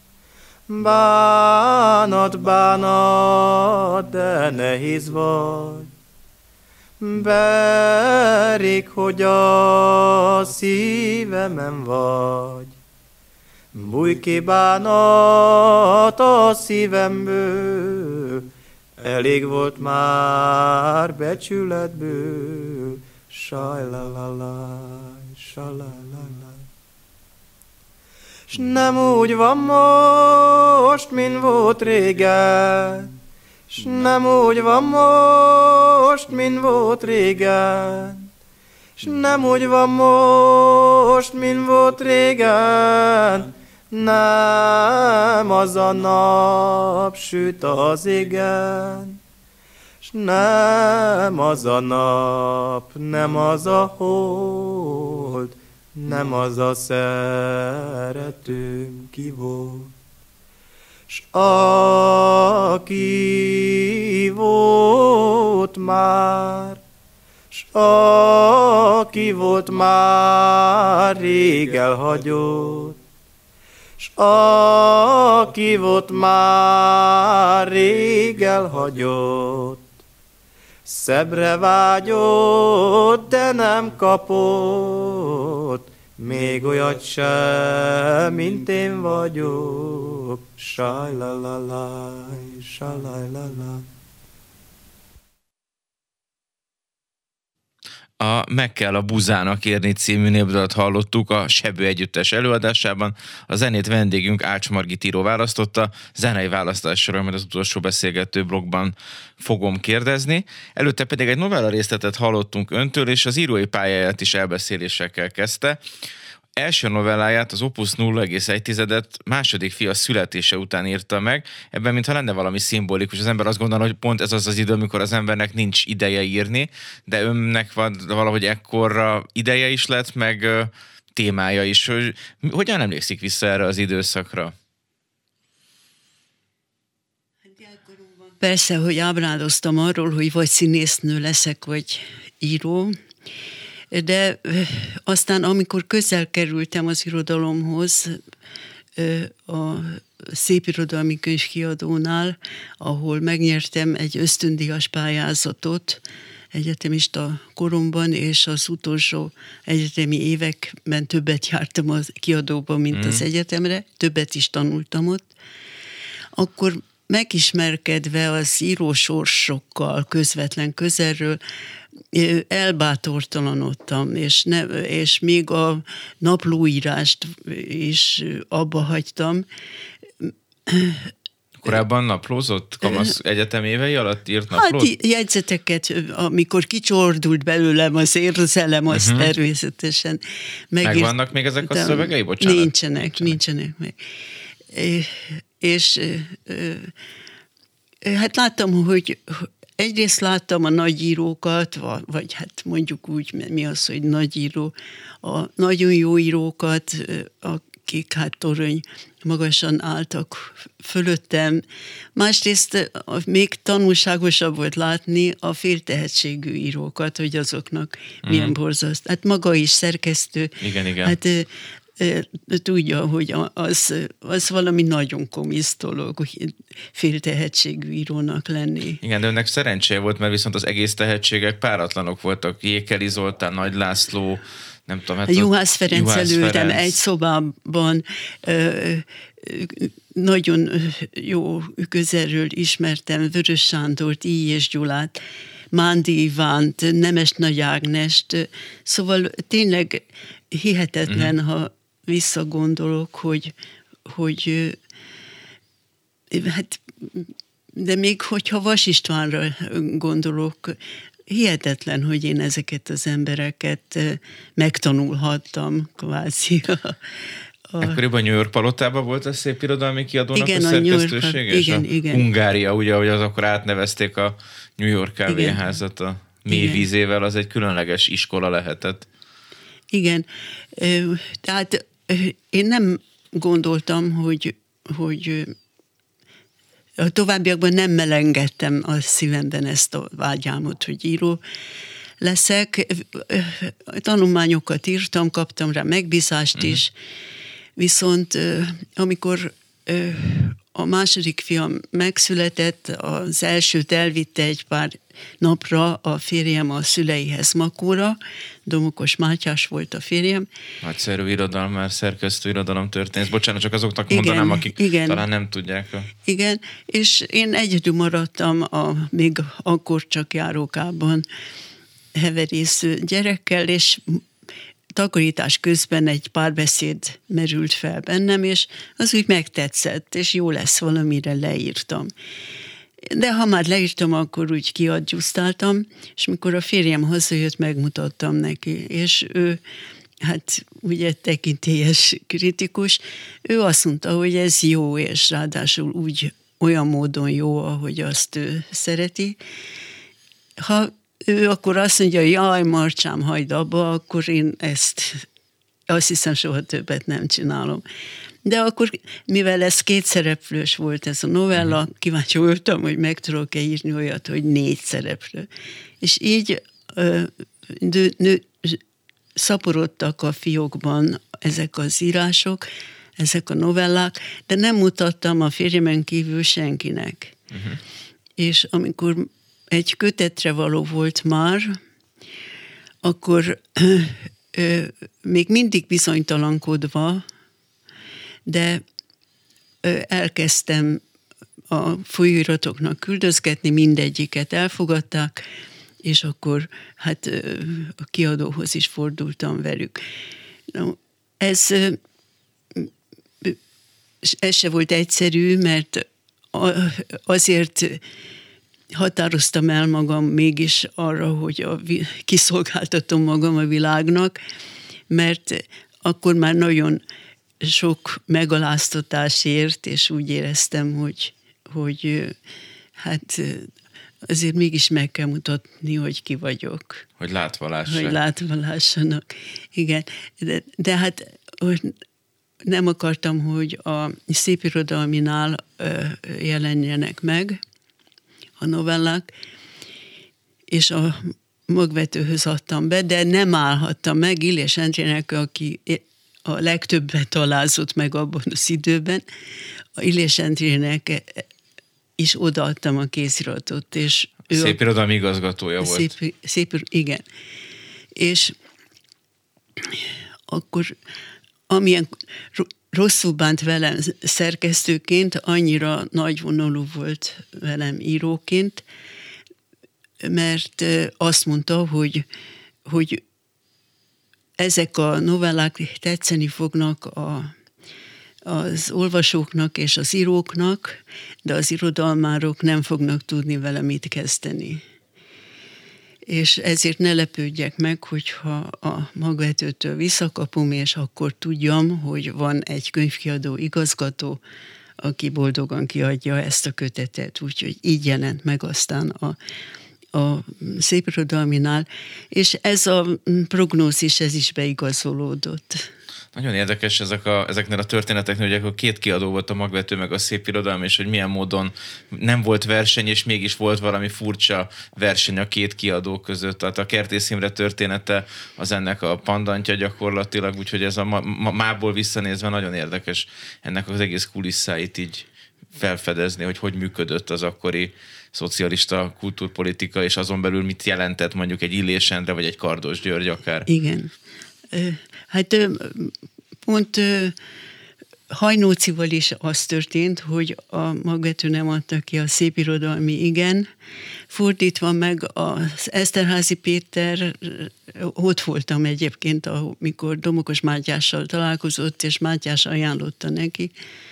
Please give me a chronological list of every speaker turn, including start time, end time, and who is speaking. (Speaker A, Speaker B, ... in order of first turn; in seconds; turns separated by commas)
Speaker A: 0.7-5.9, Speaker A: 7.0-12.7, Speaker A: 13.7-18.5, Speaker A: 19.0-26.6, Speaker A: 28.5-33.1, Speaker A: 33.7-38.3, Speaker A: 39.0-49.2, Speaker A: 50.0-59.9, Speaker A: 61.1-66.8, Speaker A: 67.5-73.0, Speaker A: 74.0-79.9, Speaker A: 80.8-93.9, Speaker B: 98.2-115.8, Speaker B: 116.6-134.5, Speaker C: 138.4-143.0, Speaker C: 143.9-148.2, Speaker C: 149.0-156.0, Speaker C: 156.5-165.3, Speaker B: 162.9-163.2, Speaker C: 166.4-171.4, Speaker C: 172.1-179.5, Speaker C: 180.2-181.1, Speaker B: 181.6-184.9, Speaker C: 184.5-190.2, Speaker B: 188.9-189.3, Speaker C: 190.7-194.0, Speaker B: 190.8-193.4, Speaker C: 194.7-196.9, Speaker C: 198.1-211.6, Speaker C: 212.2-229.0, Speaker B: 218.2-218.6, Speaker B: 220.6-221.2, Speaker B: 229.0-236.9, Speaker C: 235.3-245.2, Speaker C: 245.7-253.5, Speaker C: 254.1-254.8, Speaker C: 256.3-267.0, Speaker B: 267.8-279.1, Speaker C: 270.3-272.3, Speaker C: 275.3-275.6, Speaker C: 276.5-276.9, Speaker C: 279.9-285.6, Speaker C: 287.0-291.4, Speaker C: 292.2-296.9, Speaker C: 297.8-310.5, Speaker B: 310.8-316.1, Speaker C: 314.1-315.2, Speaker C: 316.2-321.3, Speaker C: 322.1-324.2, Speaker C: 325.0-332.1, Speaker C: 333.0-339.6, Speaker C: 340.2-349.4, Speaker C: 350.6-355.2, Speaker C: 355.9-357.8, Speaker C: 358.4-365.5, Speaker C: 366.0-368.8, Speaker C: 369.4-372.6, Speaker C: 373.2-377.4, Speaker B: 377.5-377.8, Speaker C: 378.4-381.8, Speaker C: 383.0-387.2, Speaker C: 388.5-388.8, Speaker C: 389.8-391.0, Speaker C: 391.7-395.4, Speaker C: 396.0-400.0, Speaker C: 400.7-402.0, Speaker C: 404.2-408.0, Speaker C: 408.9-414.4, Speaker C: 415.1-417.0, Speaker C: 417.6-422.4, Speaker C: 423.0-423.7, Speaker C: 424.3-427.1, Speaker B: 427.2-428.2, Speaker C: 427.9-432.0, Speaker C: 432.6-437.6, Speaker C: 438.6-439.3, Speaker C: 440.7-449.2, Speaker C: 450.0-451.4, Speaker C: 452.2-454.8, Speaker B: 454.5-456.1, Speaker C: 455.8-457.2, Speaker C: 458.2-458.6, Speaker C: 459.9-460.9, Speaker C: 461.7-468.8, Speaker C: 470.2-472.3, Speaker C: 472.9-473.2, Speaker C: 474.6-477.5, Speaker C: 478.5-484.8, Speaker C: 486.3-494.4, Speaker C: 495.0-499.4, Speaker C: 500.1-505.9, Speaker B: 506.3-533.7, Speaker C: 533.7-534.1, Speaker C: 534.7-537.4, Speaker C: 538.3-543.7, Speaker C: 544.3-553.7